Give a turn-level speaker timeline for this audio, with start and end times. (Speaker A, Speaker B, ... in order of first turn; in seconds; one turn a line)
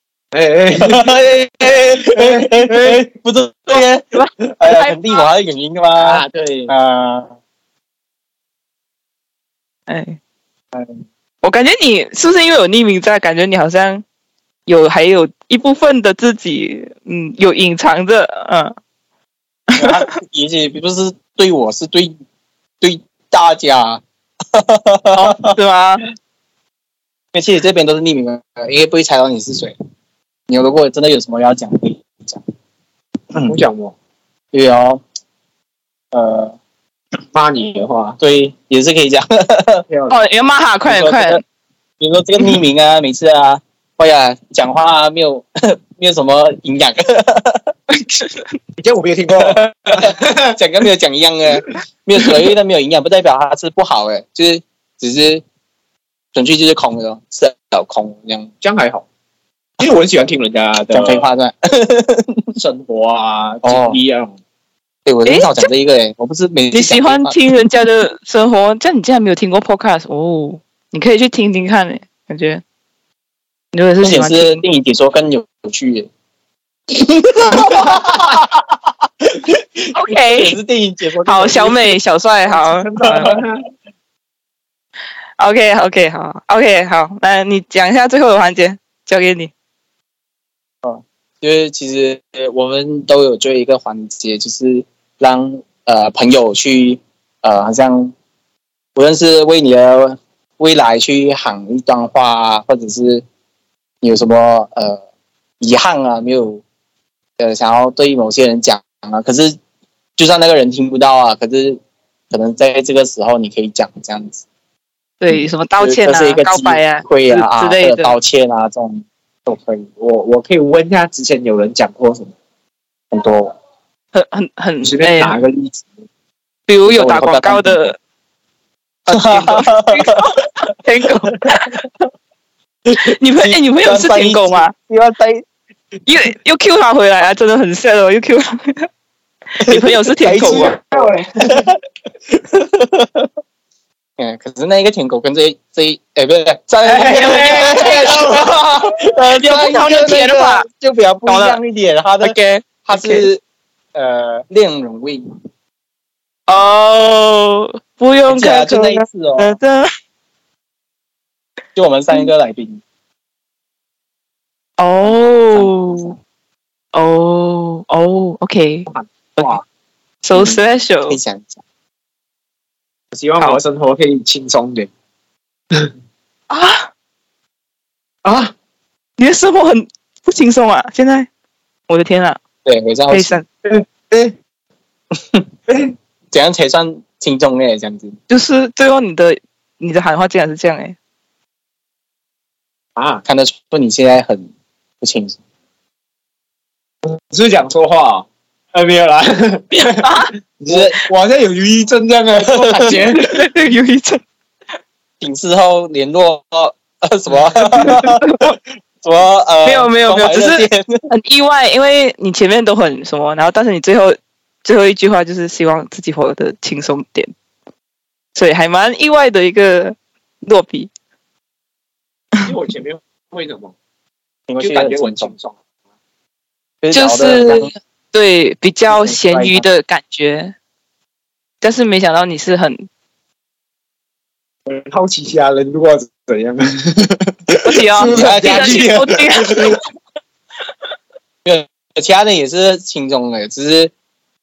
Speaker A: 0.3-3.0
Speaker B: 0.8-7.3
Speaker C: 4.1-5.0
Speaker A: 6.0-6.7
Speaker C: 9.9-10.2
Speaker C: 11.4-14.0
Speaker C: 14.7-18.7
Speaker C: 19.7-20.1
Speaker B: 19.8-22.1
Speaker B: 22.8-24.0
Speaker B: 24.5-25.6
Speaker C: 25.1-26.0
Speaker B: 27.3-29.7
Speaker B: 30.5-32.4
Speaker A: 33.5-33.9
Speaker B: 34.5-35.0
Speaker B: 36.1-36.6
Speaker A: 37.3-38.2
Speaker B: 38.2-39.8
Speaker A: 39.9-40.2
Speaker C: 40.1-41.4
Speaker B: 40.9-41.4
Speaker B: 42.0-47.7
Speaker C: 48.1-48.5
Speaker A: 48.8-50.5
Speaker B: 50.0-55.4
Speaker B: 56.3-58.5
Speaker A: 58.6-59.0
Speaker A: 59.8-61.3
Speaker B: 60.9-62.5
Speaker A: 62.5-64.4
Speaker B: 63.6-64.0
Speaker B: 65.0-67.4
Speaker C: 65.3-65.7
Speaker C: 66.7-72.6
Speaker C: 73.7-74.6
Speaker B: 74.0-76.1
Speaker B: 76.9-82.0
Speaker C: 79.9-80.5
Speaker C: 81.3-83.3
Speaker A: 82.5-83.5
Speaker C: 85.4-89.5
Speaker B: 90.8-98.1
Speaker B: 99.0-103.2
Speaker B: 104.0-105.0
Speaker B: 105.6-106.6
Speaker B: 107.4-109.5
Speaker B: 110.2-114.4
Speaker C: 115.2-118.2
Speaker B: 115.3-119.9
Speaker A: 120.0-122.3
Speaker B: 123.1-123.5
Speaker C: 124.1-125.4
Speaker A: 124.8-125.9
Speaker C: 126.7-128.0
Speaker B: 126.8-127.8
Speaker C: 129.1-131.8
Speaker B: 129.1-130.2
Speaker B: 132.9-135.4
Speaker C: 133.0-134.7
Speaker C: 136.1-138.9
Speaker C: 139.6-140.8
Speaker B: 139.6-141.8
Speaker A: 140.4-141.7
Speaker B: 142.4-143.3
Speaker B: 144.2-153.4
Speaker C: 146.9-148.4
Speaker A: 146.9-148.6
Speaker C: 149.4-150.7
Speaker C: 151.3-151.6
Speaker C: 152.2-153.3
Speaker B: 153.9-155.2
Speaker C: 156.5-159.9
Speaker B: 158.3-159.6
Speaker B: 161.7-162.8
Speaker C: 164.8-166.2
Speaker B: 165.4-166.1
Speaker C: 166.9-168.9
Speaker A: 168.9-169.6
Speaker C: 170.2-171.2
Speaker B: 170.3-171.6
Speaker A: 173.1-174.9
Speaker C: 176.5-176.9
Speaker A: 178.2-178.5
Speaker C: 179.2-181.3
Speaker C: 181.9-182.4
Speaker B: 182.6-183.3
Speaker C: 183.1-183.4
Speaker A: 183.6-184.3
Speaker B: 185.2-185.4
Speaker A: 185.7-185.9
Speaker B: 186.3-188.2
Speaker C: 188.3-190.9
Speaker A: 192.9-193.2
Speaker B: 193.2-194.5
Speaker B: 195.0-195.4
Speaker A: 197.1-203.4
Speaker C: 199.8-200.3
Speaker B: 200.7-201.0
Speaker B: 202.4-203.0
Speaker C: 203.2-204.2
Speaker B: 205.2-208.5
Speaker C: 207.8-208.5
Speaker B: 209.0-211.0
Speaker C: 209.6-217.3
Speaker C: 218.3-220.9
Speaker A: 222.4-223.7
Speaker B: 224.5-225.3
Speaker A: 224.6-225.6
Speaker B: 226.8-227.7
Speaker C: 226.9-230.6
Speaker B: 228.9-229.7
Speaker C: 231.6-232.9
Speaker A: 234.7-239.8
Speaker C: 237.6-239.7
Speaker B: 238.0-239.6
Speaker B: 241.4-243.9